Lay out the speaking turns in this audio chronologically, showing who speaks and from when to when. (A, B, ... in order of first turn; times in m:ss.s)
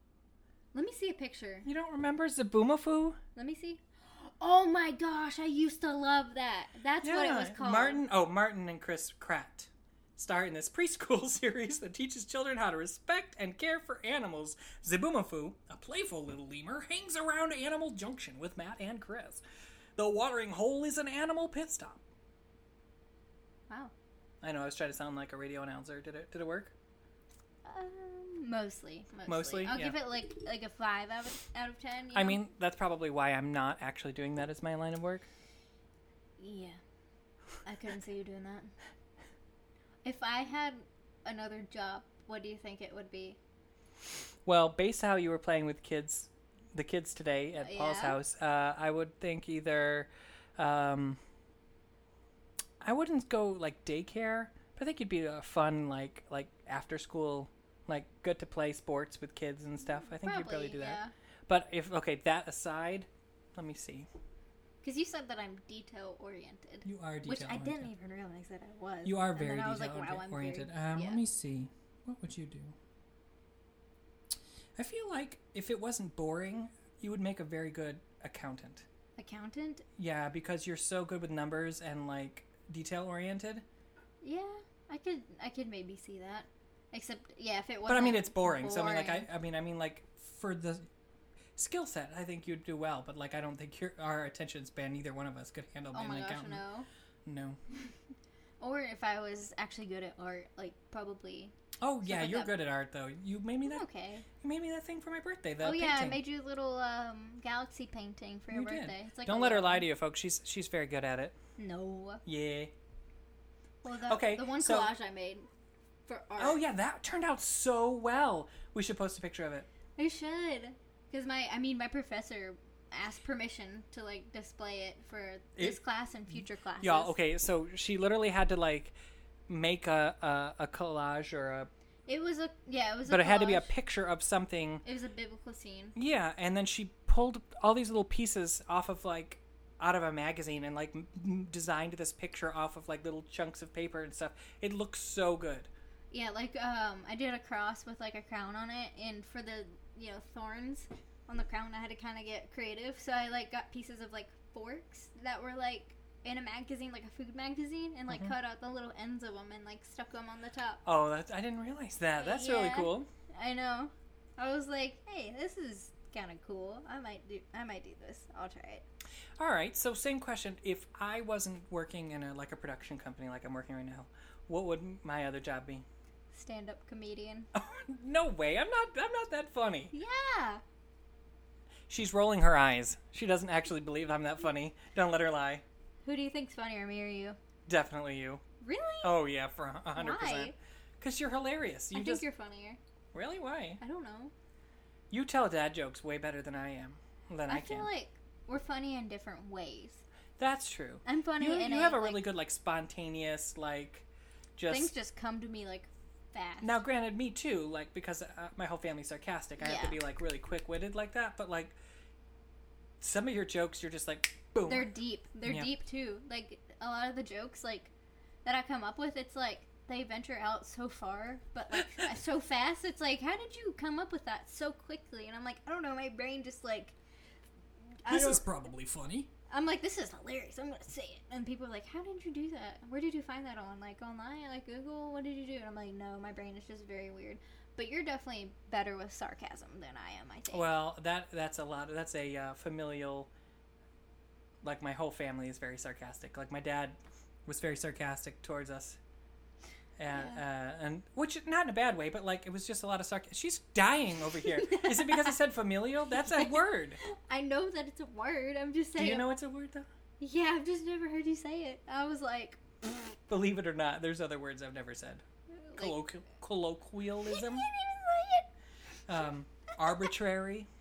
0:00.7-0:01.7 A
0:01.6-0:03.2 B
0:03.4-0:08.0 A
0:07.0-0:19.4 B
0:20.0-0:22.0 B
0:24.4-0:26.7 B
0:27.6-0:32.4 A
0:29.3-0:30.0 B
0:32.1-0:35.3 B
0:36.4-0:36.8 A
0:37.6-0:38.7 A
0:40.0-0:43.4 A
0:44.4-0:51.2 B
0:47.6-0:48.2 A
0:52.8-1:04.1 B
1:00.1-1:01.1 A
1:04.8-1:11.2 A
1:06.8-1:07.9 B
1:09.0-1:12.8 B
1:14.8-1:18.9 B
1:19.2-1:19.8 A
1:20.0-1:23.6 B
1:24.2-1:29.3 A
1:27.9-1:30.9 B
1:31.6-1:36.6 B
1:35.9-1:36.9 A
1:37.2-1:37.6 B
1:38.6-1:42.5 A
1:41.8-1:43.8 B
1:43.6-1:44.3 A
1:44.4-1:46.2 B
1:45.6-1:49.9 A
1:48.5-1:51.4 B
1:51.6-1:52.2 A
1:52.2-1:52.7 B
1:53.8-1:55.5 A
1:54.1-1:54.9 B
1:56.1-1:56.6 A
1:56.4-1:59.7 B
2:00.0-2:07.2 A
2:06.8-2:09.0 B
2:09.5-2:11.7 B
2:12.1-2:13.7 A
2:13.1-2:14.8 B
2:14.8-2:16.0 A
2:16.0-2:25.7 B
2:26.1-2:40.8 A
2:40.8-2:43.1 B
2:42.2-2:48.8 A
2:49.4-2:55.8 B
2:56.3-2:57.5 A
2:57.5-2:59.9 B
2:59.9-3:00.6 A
3:01.9-3:05.6 B
3:06.0-3:07.4 A
3:07.7-3:08.4 B
3:08.6-3:09.2 A
3:09.0-3:12.2 B
3:10.0-3:10.6 A
3:11.9-3:12.8 A
3:13.1-3:13.8 B
3:13.8-3:14.3 A
3:15.1-3:17.9 B
3:17.5-3:20.0 A
3:20.4-3:24.9 B
3:21.0-3:22.2 A
3:24.7-3:26.8 A
3:26.6-3:31.8 B
3:29.6-3:30.0 A
3:33.0-3:34.9 B
3:34.6-3:37.9 A
3:35.4-3:35.7 B
3:38.4-3:47.0 A
3:48.0-3:48.5 A
3:48.1-3:49.3 B
3:49.5-4:00.7 A
4:00.5-4:03.3 B
4:04.6-4:09.0 B
4:10.0-4:17.0 B
4:10.1-4:10.4 A
4:14.4-4:15.4 A
4:16.2-4:19.3 A
4:19.0-4:19.9 B
4:20.2-4:23.1 A
4:23.3-4:25.2 B
4:25.5-4:26.0 A
4:25.8-4:27.7 B
4:27.3-4:28.5 A
4:29.1-4:30.7 B